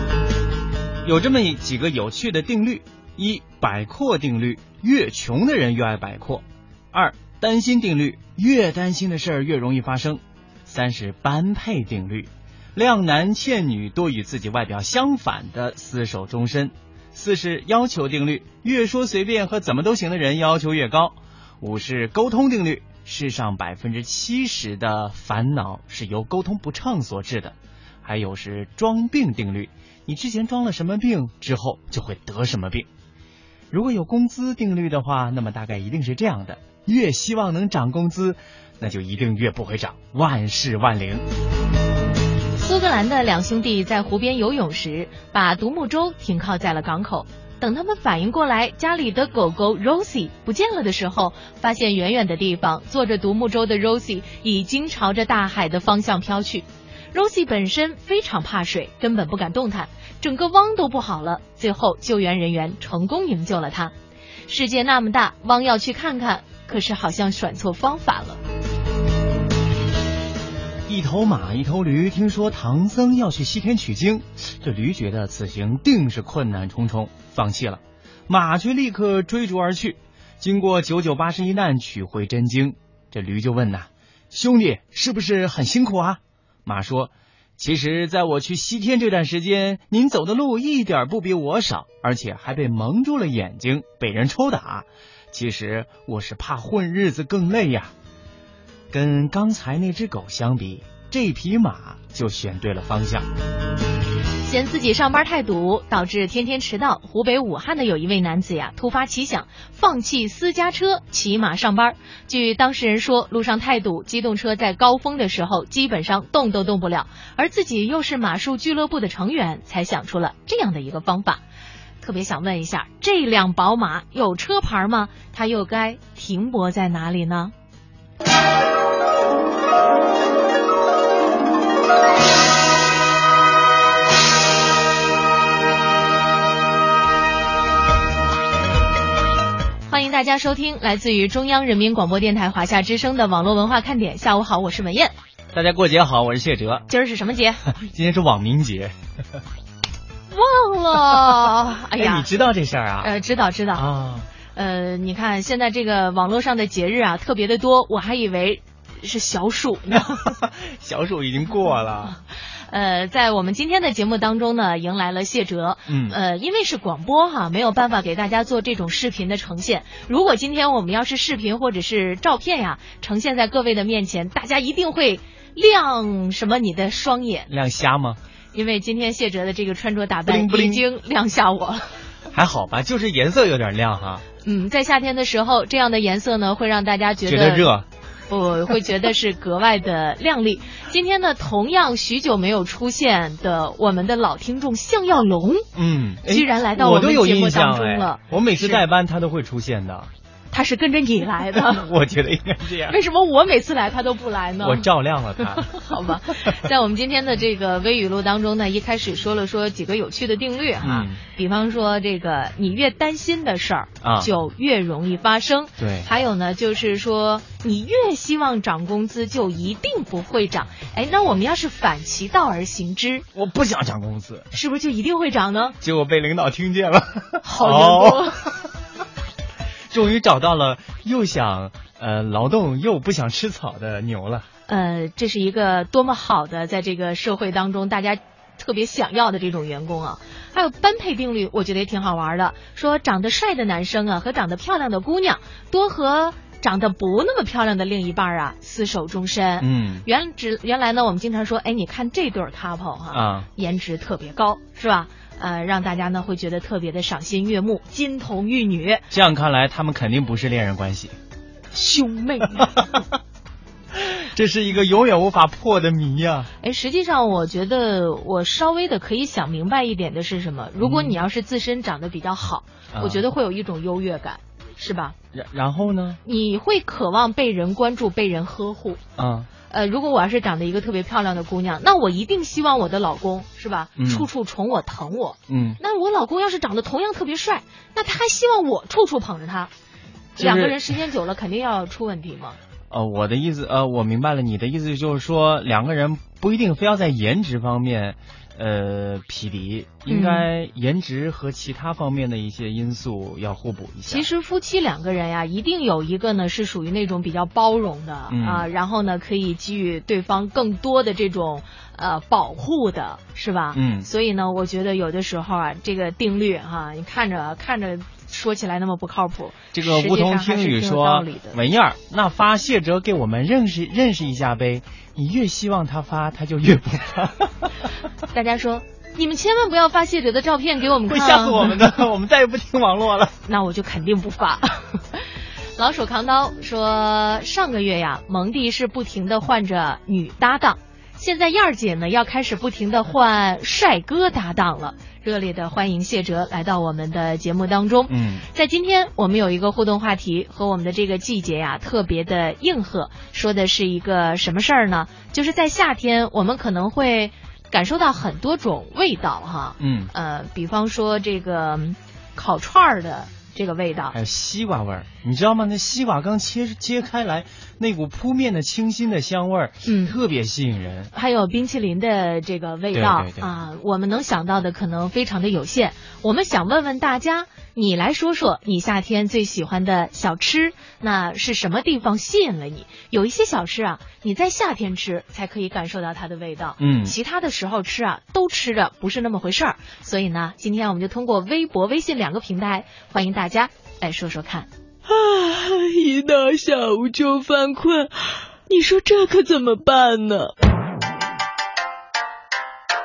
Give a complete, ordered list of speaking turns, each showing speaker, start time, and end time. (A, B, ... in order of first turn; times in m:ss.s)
0:01.0-0:32.9 A
0:33.7-0:41.2 A
0:42.6-1:03.9 B
1:04.5-1:08.4 B
1:10.8-1:37.9 A
1:38.9-1:43.3 A
1:44.4-2:01.4 B
2:02.0-2:07.5 B
2:19.9-2:25.1 B
2:25.5-2:26.8 A
2:26.9-2:27.6 B
2:27.7-2:28.9 A
2:30.3-2:32.3 B
2:32.0-2:33.1 A
2:33.0-2:33.8 B
2:33.7-2:34.3 A
2:34.5-2:40.2 B
2:39.9-2:42.2 A
2:42.7-2:57.5 B
2:45.9-2:46.2 A
2:57.5-2:58.2 A
2:58.5-3:01.9 B
3:00.3-3:00.8 A
3:02.3-3:04.2 A
3:04.4-3:07.7 B
3:07.2-3:07.9 A
3:08.3-3:15.7 B
3:15.7-3:20.1 A
3:16.2-3:18.8 B
3:20.5-3:21.9 B
3:21.5-3:23.0 A
3:22.8-3:24.9 B
3:24.6-3:26.5 A
3:25.5-3:43.3 B
3:30.8-3:31.2 A
3:34.0-3:34.3 A
3:35.8-3:36.1 A
3:43.3-3:44.5 A
3:44.5-3:45.8 B
3:45.8-3:48.5 A
3:47.4-3:48.4 B
3:49.9-3:54.5 A
3:54.7-4:19.0 B
4:09.6-4:10.0 A
4:13.1-4:13.5 A
4:19.1-4:21.1 A
4:21.7-4:22.8 B
4:22.6-4:23.0 A
4:23.9-4:26.5 A
4:26.6-4:35.2 B
4:30.8-4:31.2 A
4:32.9-4:33.2 A
4:35.3-4:36.2 A
4:36.2-4:39.0 B
4:39.2-4:39.5 A
4:39.7-4:49.7 B
4:44.0-4:44.3 A
4:45.5-4:45.8 A
4:50.4-4:52.6 B
4:50.4-4:50.8 A
4:52.9-5:04.3 A
5:00.1-5:00.5 B
5:04.1-5:21.6 B
5:08.3-5:08.7 A
5:13.7-5:14.1 A
5:19.7-5:27.7 A
5:28.3-5:31.8 B
5:31.0-5:33.3 A
5:33.4-6:04.2 B
5:48.1-5:48.4 A
5:59.8-6:00.1 A
6:04.1-6:11.1 A
6:09.8-6:10.2 B
6:11.1-6:34.7 B
6:12.9-6:13.5 A
6:26.8-6:27.2 A
6:35.0-6:40.5 C